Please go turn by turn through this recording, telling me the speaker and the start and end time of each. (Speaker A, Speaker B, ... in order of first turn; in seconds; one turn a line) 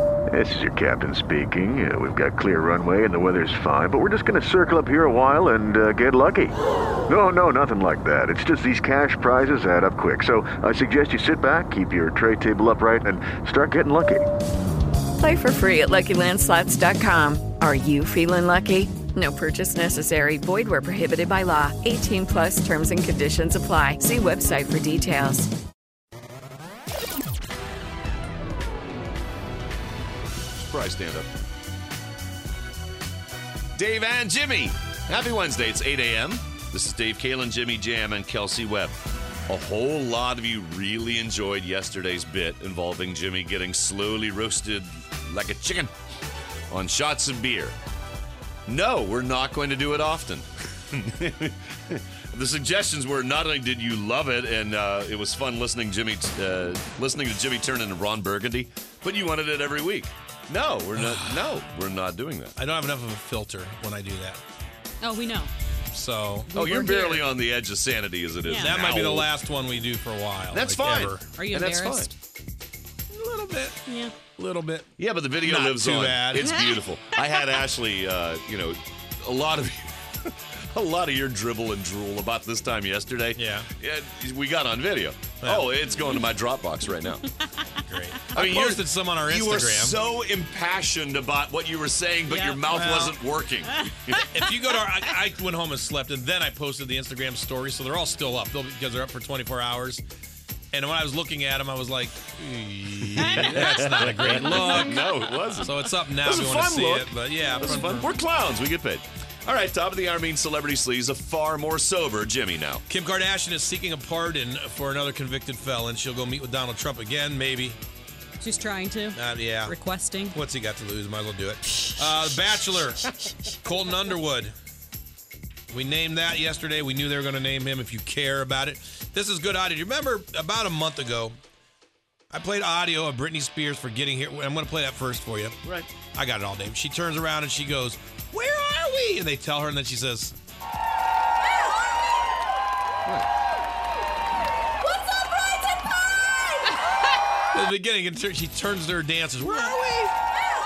Speaker A: 0.3-6.5
Speaker A: 7.1-14.2
Speaker B: 15.2-25.5
Speaker C: 30.5-31.3
Speaker C: 33.7-45.9
Speaker C: 46.7-47.8
Speaker C: 48.7-62.5
Speaker D: 60.9-61.6
Speaker D: 62.5-64.4
Speaker E: 65.0-65.5
Speaker D: 65.9-66.5
Speaker E: 66.5-67.3
Speaker C: 66.5-69.3
Speaker E: 68.4-68.7
Speaker D: 68.6-71.2
Speaker C: 70.5-72.1
Speaker E: 71.2-72.1
Speaker D: 73.1-73.8
Speaker E: 73.8-74.1
Speaker D: 74.3-74.9
Speaker C: 75.0-87.2
Speaker D: 75.4-76.5
Speaker E: 76.4-77.6
Speaker D: 83.3-83.7
Speaker D: 85.4-85.7
Speaker E: 87.2-88.3
Speaker D: 87.8-90.0
Speaker C: 88.3-94.2
Speaker E: 92.3-92.7
Speaker D: 92.7-93.2
Speaker E: 93.7-94.3
Speaker D: 94.1-100.0
Speaker D: 100.7-108.1
Speaker C: 103.2-112.8
Speaker E: 103.2-105.6
Speaker E: 107.5-108.0
Speaker D: 112.9-117.8
Speaker E: 118.4-120.4
Speaker D: 119.1-119.7
Speaker D: 120.3-124.5
Speaker D: 125.7-131.4
Speaker D: 132.3-135.6
Speaker C: 135.6-135.9
Speaker D: 136.1-140.3
Speaker D: 147.5-150.1